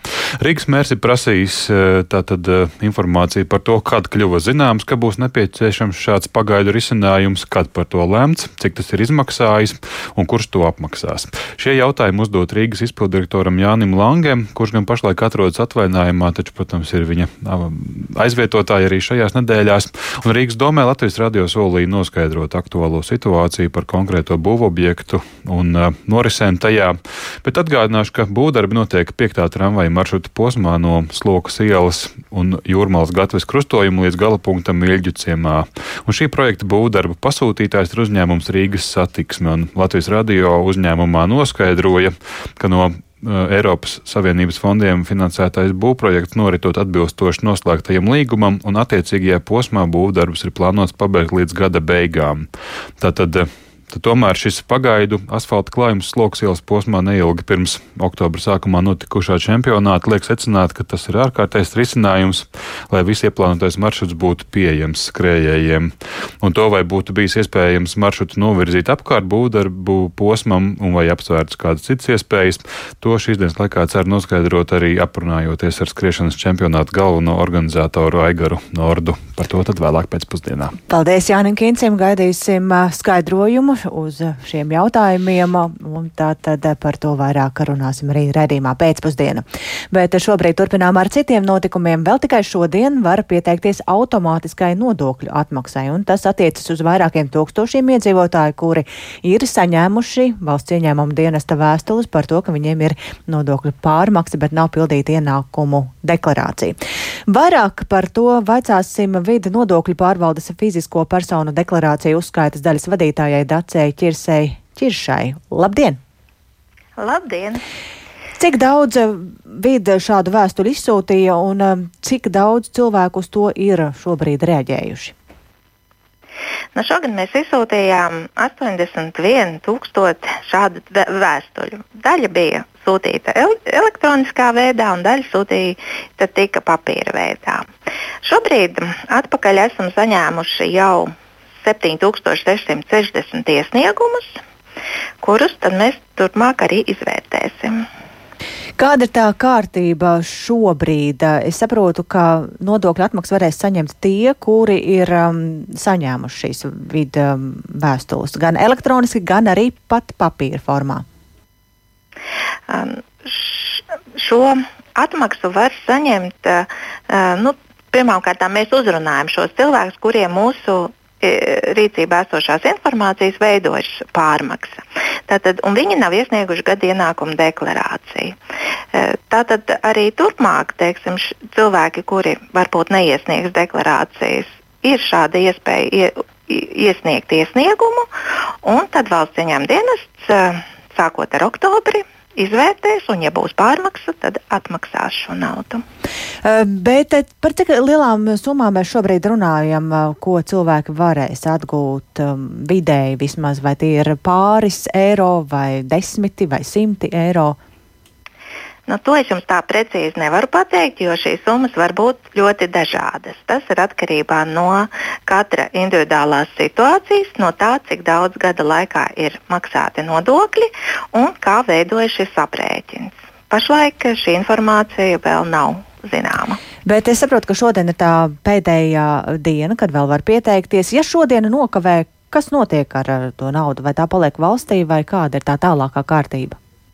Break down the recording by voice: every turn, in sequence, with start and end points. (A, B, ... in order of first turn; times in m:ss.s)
0:00.4-0:52.5 A
0:53.0-1:20.8 A
1:20.9-1:56.0 B
1:57.0-1:57.6 C
1:58.4-2:05.1 B
2:06.7-2:17.7 C
2:18.2-2:21.1 C
2:21.6-2:24.4 C
2:25.2-2:27.8 C
2:28.8-2:41.0 B
2:42.7-2:58.4 C
2:58.9-3:08.1 C
3:08.6-3:15.8 C
3:16.4-3:27.6 B
3:28.9-3:46.6 C
3:46.8-3:56.6 B